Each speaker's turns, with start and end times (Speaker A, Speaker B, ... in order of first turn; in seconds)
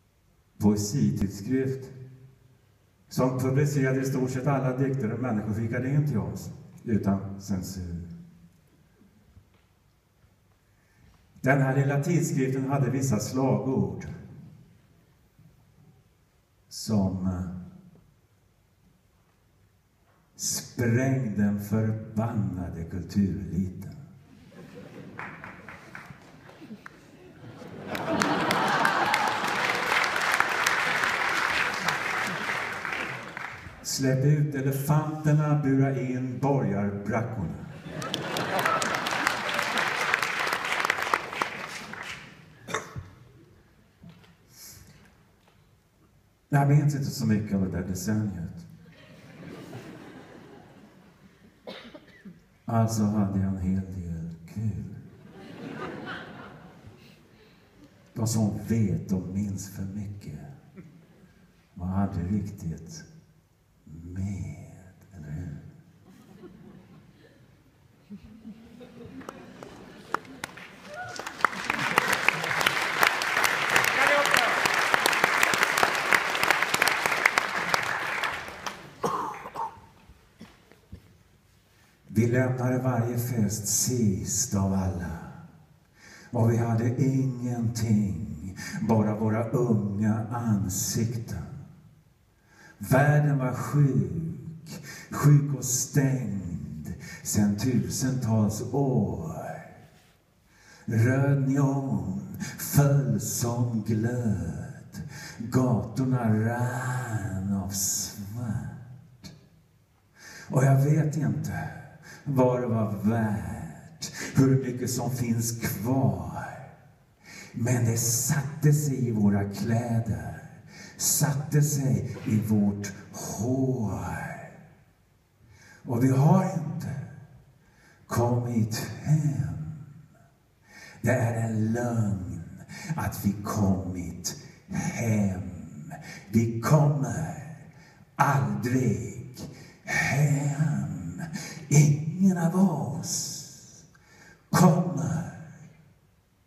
Speaker A: 0.6-1.9, 3.1-8.1, 11.4-14.1, 16.7-17.5, 20.4-24.0, 33.8-37.7, 46.5-48.6, 52.6-55.0, 58.1-60.5, 61.7-63.1, 63.8-65.7, 82.1-85.4, 86.3-91.5, 92.8-99.7, 100.9-109.3, 110.5-116.7, 117.5-124.5, 125.8-127.0, 128.1-129.8, 131.0-137.6, 138.2-143.8, 144.5-145.4